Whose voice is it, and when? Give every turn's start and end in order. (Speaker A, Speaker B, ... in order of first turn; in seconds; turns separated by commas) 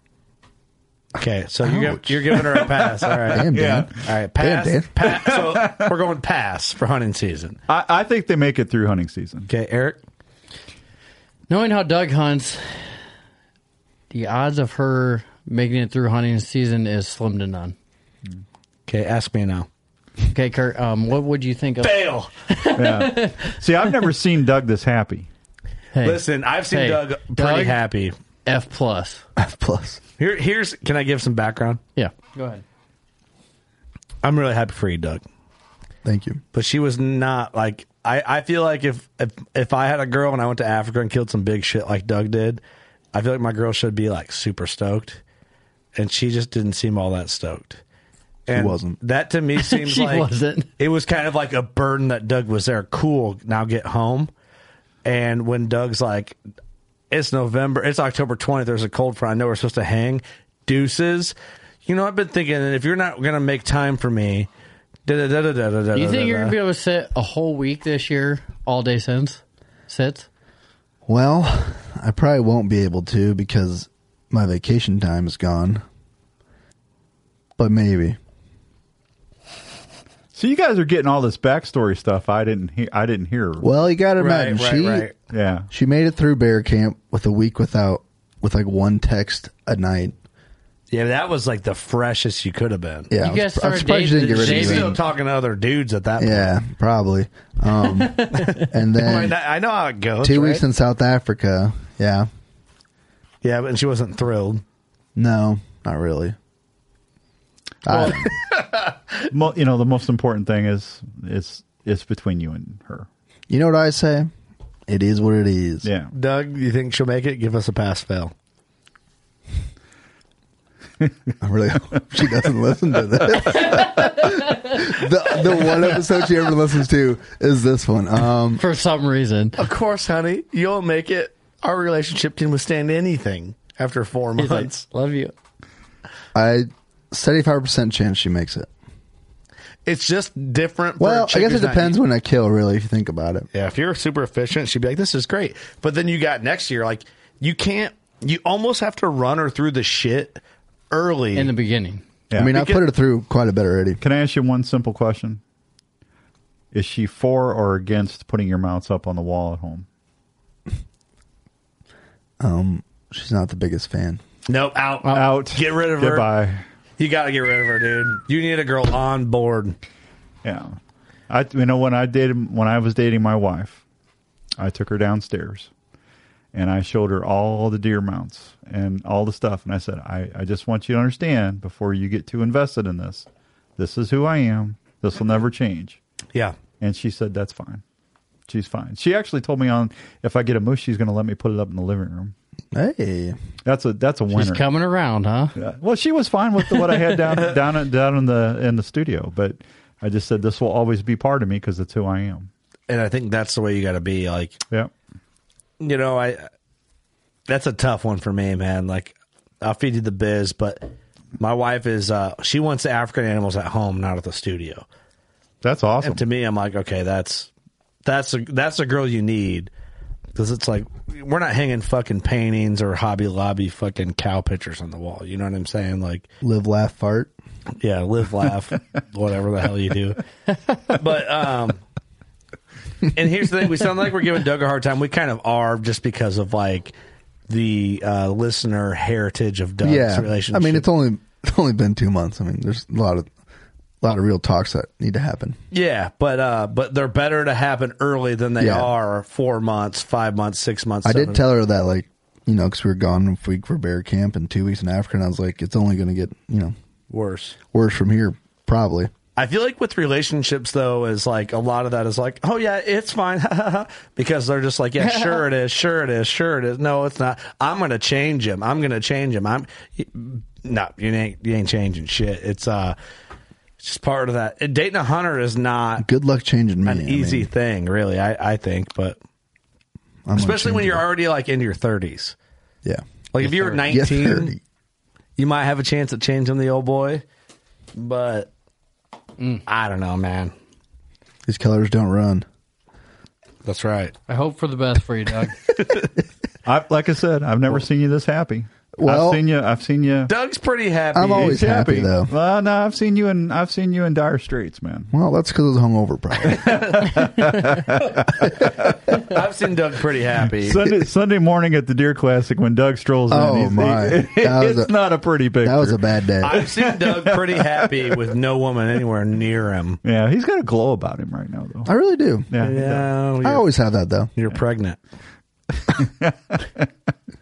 Speaker A: 1.2-7.6, Speaker B: 1.6-2.4, Speaker C: 2.3-3.9, Speaker B: 3.3-4.9, Speaker C: 5.0-5.9, Speaker C: 7.7-9.5, Speaker A: 9.5-10.0, Speaker D: 11.5-12.9, Speaker D: 14.1-17.7, Speaker A: 18.9-19.7, Speaker D: 20.3-23.6, Speaker A: 21.8-22.3, Speaker C: 22.7-25.3, Speaker D: 25.9-27.8, Speaker A: 26.0-28.1, Speaker D: 28.4-29.2, Speaker B: 29.4-30.0, Speaker A: 30.2-31.8, Speaker D: 31.9-32.6, Speaker A: 34.2-35.2, Speaker B: 36.0-36.4, Speaker A: 36.5-42.6, Speaker A: 43.1-45.2, Speaker A: 45.9-47.8, Speaker A: 48.5-54.3, Speaker B: 48.5-49.0, Speaker D: 49.5-50.7, Speaker A: 55.0-56.4, Speaker A: 57.1-61.3, Speaker A: 61.9-64.5, Speaker A: 65.1-66.5, Speaker D: 65.9-70.3, Speaker B: 71.0-75.8, Speaker B: 77.6-78.2, Speaker C: 80.3-83.7, Speaker B: 83.6-85.1, Speaker A: 84.2-85.1, Speaker C: 85.3-85.7, Speaker B: 85.7-90.1, Speaker A: 90.9-93.1, Speaker B: 93.1-95.0, Speaker D: 93.2-95.0, Speaker A: 94.2-96.6, Speaker B: 96.2-99.4, Speaker D: 98.0-98.6, Speaker A: 98.3-100.6, Speaker B: 100.2-102.3, Speaker A: 103.4-104.6, Speaker B: 105.2-106.3, Speaker B: 107.8-108.3, Speaker A: 107.9-109.0, Speaker C: 109.3-113.1, Speaker B: 113.5-114.3, Speaker B: 114.9-115.9, Speaker C: 115.8-116.1, Speaker A: 116.1-118.3, Speaker C: 121.0-121.3, Speaker B: 121.4-128.6, Speaker C: 123.4-123.9, Speaker D: 124.2-124.6, Speaker D: 128.6-129.6, Speaker A: 129.6-134.8, Speaker D: 134.4-135.3, Speaker B: 136.3-138.7, Speaker A: 139.8-142.0, Speaker B: 141.0-143.5, Speaker A: 143.5-151.5, Speaker D: 151.3-152.0, Speaker C: 152.3-152.6, Speaker B: 152.3-154.0, Speaker A: 152.5-152.8, Speaker C: 154.0-155.4, Speaker C: 156.7-159.8, Speaker B: 162.4-164.2, Speaker A: 164.5-166.3, Speaker C: 165.1-166.6, Speaker A: 167.0-169.8, Speaker C: 170.4-170.8, Speaker C: 171.3-173.8, Speaker C: 174.6-175.7, Speaker C: 176.5-186.0, Speaker C: 186.8-187.8, Speaker C: 188.5-192.3, Speaker B: 192.7-193.3, Speaker C: 193.6-194.6, Speaker D: 194.3-195.6, Speaker C: 195.6-202.5, Speaker A: 202.9-204.6, Speaker A: 205.8-206.5, Speaker A: 207.5-214.8, Speaker C: 215.6-216.2, Speaker A: 216.0-217.5, Speaker A: 218.0-219.7, Speaker A: 220.3-226.3, Speaker B: 226.4-227.3, Speaker A: 227.8-230.2, Speaker A: 230.9-231.8, Speaker A: 233.1-236.9, Speaker A: 237.5-240.9, Speaker B: 239.8-243.3, Speaker B: 244.0-245.6, Speaker A: 245.7-251.4, Speaker B: 248.6-248.9, Speaker B: 251.0-256.7, Speaker A: 257.1-257.6, Speaker B: 257.7-259.1, Speaker A: 259.4-272.9, Speaker D: 265.1-265.4, Speaker A: 273.8-276.1, Speaker B: 276.0-277.5, Speaker A: 276.8-279.2, Speaker B: 280.2-281.1, Speaker A: 280.3-282.3, Speaker A: 283.3-284.5, Speaker B: 283.7-284.6, Speaker A: 285.4-287.2, Speaker A: 287.9-288.5, Speaker D: 289.4-289.6, Speaker A: 289.6-290.5, Speaker B: 291.5-292.4, Speaker A: 293.6-294.1, Speaker D: 294.3-295.6, Speaker A: 295.7-296.1, Speaker C: 296.6-300.3, Speaker B: 298.9-299.4, Speaker A: 300.3-301.6, Speaker B: 301.1-302.3, Speaker C: 301.2-305.1, Speaker B: 305.1-306.8, Speaker C: 306.4-309.1, Speaker A: 309.2-310.8, Speaker C: 310.5-318.2, Speaker B: 313.3-314.9, Speaker B: 315.5-316.6, Speaker A: 316.4-320.0, Speaker C: 320.0-321.9, Speaker B: 321.9-322.5, Speaker C: 322.5-323.1, Speaker A: 322.6-323.7, Speaker B: 323.4-324.3, Speaker A: 324.3-325.0, Speaker C: 325.9-326.9